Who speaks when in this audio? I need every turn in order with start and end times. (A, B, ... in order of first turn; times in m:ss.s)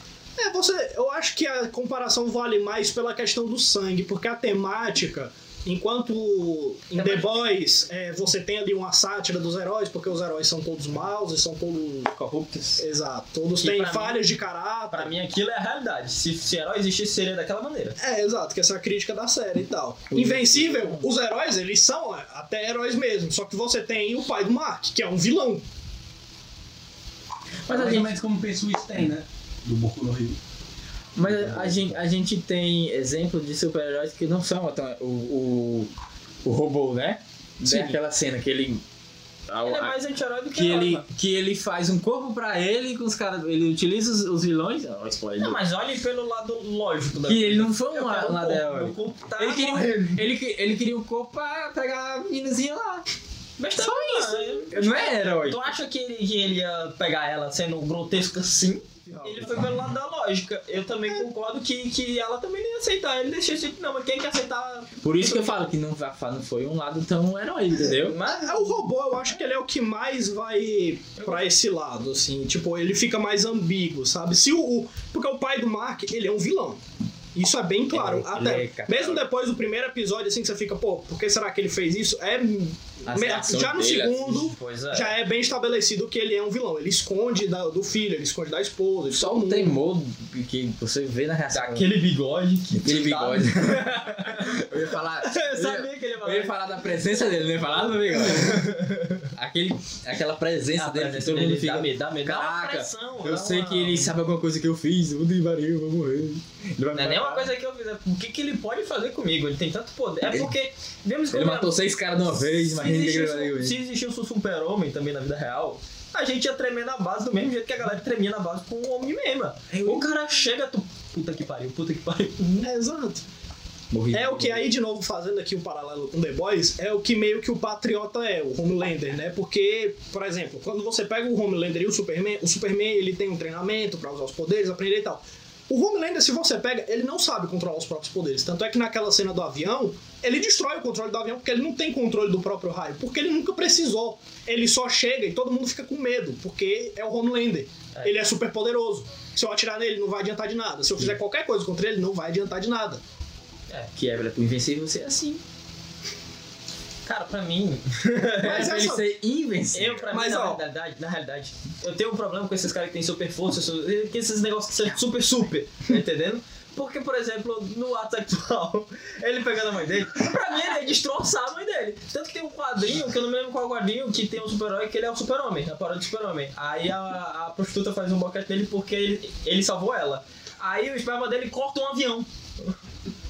0:00.4-0:12.1 A
0:06.9-0:07.5 B
0:12.3-0:12.8 C
0:12.8-0:15.2 A
0:13.6-0:14.3 B
0:14.9-0:18.0 B
0:18.0-0:25.6 A
0:20.1-0:21.1 C
0:27.7-0:28.1 C
0:27.7-0:30.4 D
0:31.2-0:35.9 C
0:31.3-0:31.9 D
0:36.4-0:38.8 C
0:37.7-0:38.0 B
0:39.5-0:40.0 C
0:39.6-0:41.1 B
0:40.5-0:45.6 C
0:45.4-0:50.2 B
0:47.3-0:53.1 C
0:53.6-1:05.6 B
0:53.8-0:55.8 C
0:59.1-0:59.6 A
1:05.0-1:08.2 C
1:07.8-1:08.8 B
1:08.3-1:16.8 A
1:11.2-1:11.5 B
1:17.4-1:29.8 A
1:17.9-1:19.2 C
1:23.0-1:24.5 C
1:24.4-1:25.1 B
1:29.1-1:31.9 C
1:31.5-1:34.7 B
1:32.8-1:38.7 C
1:35.2-1:39.3 B
1:39.3-1:47.5 C
1:40.8-1:44.1 B
1:46.9-1:51.8 B
1:51.3-1:53.8 C
1:52.3-2:02.7 B
2:02.6-2:03.2 A
2:03.9-2:04.7 C
2:04.1-2:33.0 A
2:27.9-2:28.2 B
2:33.9-2:35.4 C
2:37.1-2:38.7 B
2:38.4-2:39.1 A
2:38.4-2:40.1 C
2:39.7-3:02.8 B
2:40.1-2:40.6 A